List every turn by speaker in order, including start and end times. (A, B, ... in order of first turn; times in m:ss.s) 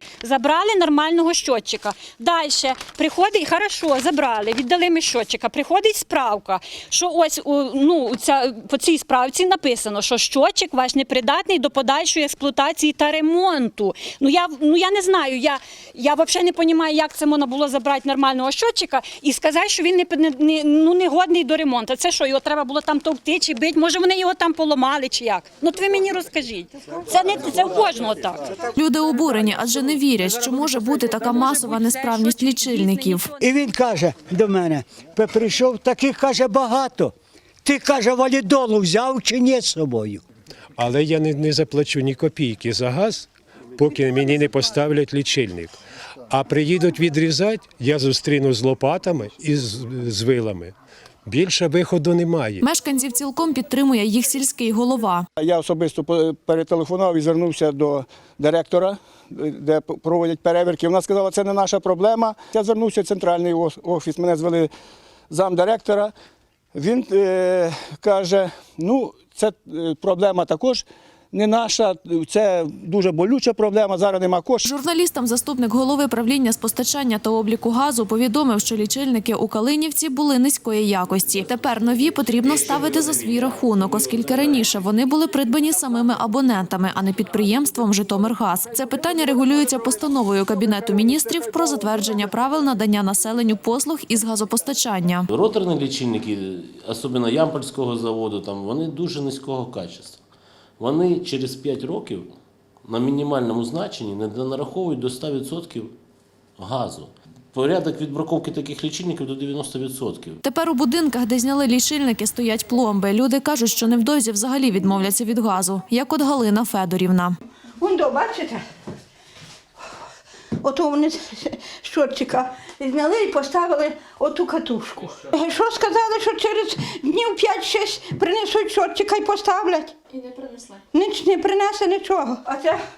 0:00.2-0:28.4 A
0:28.7-0:33.3 B
0:31.2-0:33.4 A
0:33.4-0:40.2 C
0:40.8-0:45.8 D
0:46.3-0:50.7 D
0:51.2-0:52.6 D
0:52.6-0:55.2 B
0:55.4-1:04.7 E
1:05.3-1:06.1 E
1:06.7-1:14.7 E
1:14.6-1:35.3 B
1:22.3-1:24.7 F
1:35.3-1:40.2 F
1:40.8-1:46.0 F
1:46.6-1:50.4 F
1:50.4-1:57.4 B
1:57.8-1:58.6 G
2:00.6-2:10.0 G
2:10.9-2:12.8 G